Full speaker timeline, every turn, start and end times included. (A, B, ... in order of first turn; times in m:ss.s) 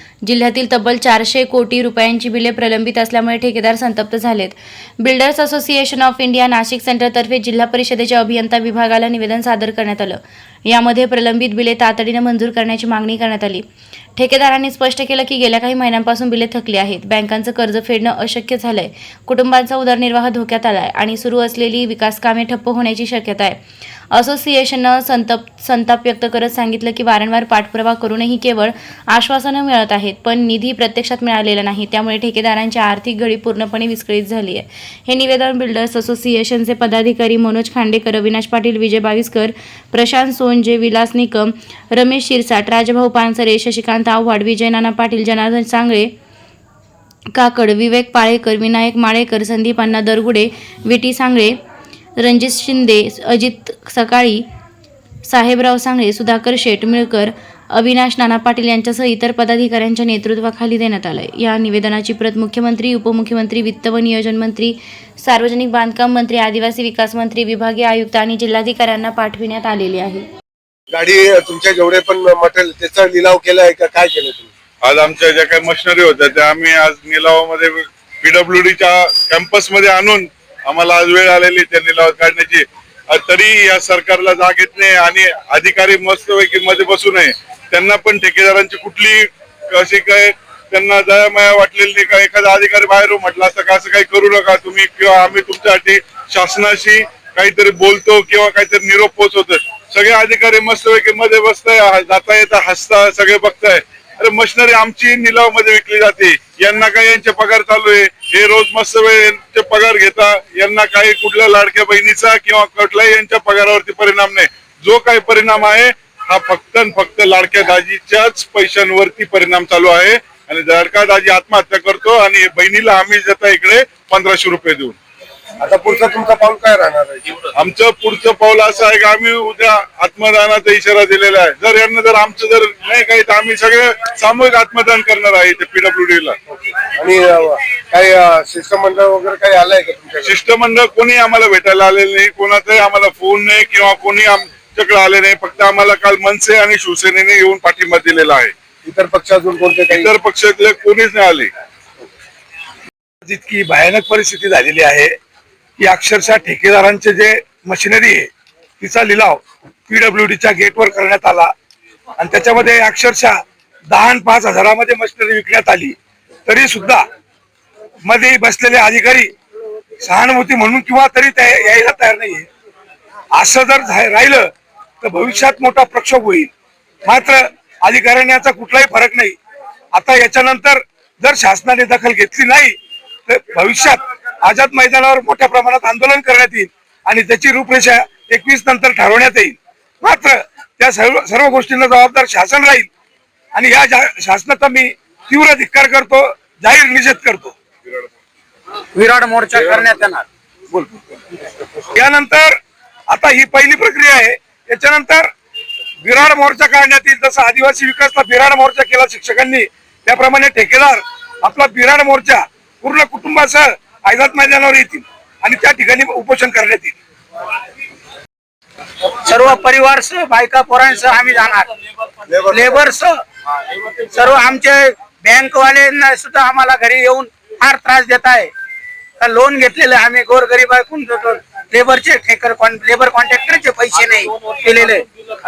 0:00.2-0:13.6 A
0:14.2-0:23.6 A
0:24.1-0:46.1 A
0:47.3-0:51.6 A
0:52.2-0:54.4 A
0:55.3-1:10.2 A
1:10.9-1:14.5 B
1:14.8-2:05.0 C
2:05.6-2:07.3 B
2:07.5-2:16.4 C
2:16.5-2:20.4 B
2:20.2-2:28.5 C
2:28.8-2:30.1 B
2:29.9-2:31.5 C
2:33.2-2:35.1 D
2:35.8-2:38.3 D
2:38.8-2:41.5 D
2:42.2-2:43.4 D
2:43.9-2:45.9 D
2:46.4-2:47.0 D
2:48.0-2:49.3 D
2:50.0-2:52.5 D
2:53.3-2:54.5 D
2:55.0-2:56.5 D
2:57.0-2:59.4 D
2:59.9-3:02.7 D
3:03.3-3:12.9 D
3:13.5-3:17.5 D
3:18.9-3:20.2 E
3:21.9-3:22.5 D
3:23.1-3:25.3 D
3:26.0-3:36.9 D
3:39.2-3:41.7 E
3:42.3-3:42.8 B
3:42.5-3:43.2 E
3:43.9-3:48.5 E
3:49.2-3:55.1 E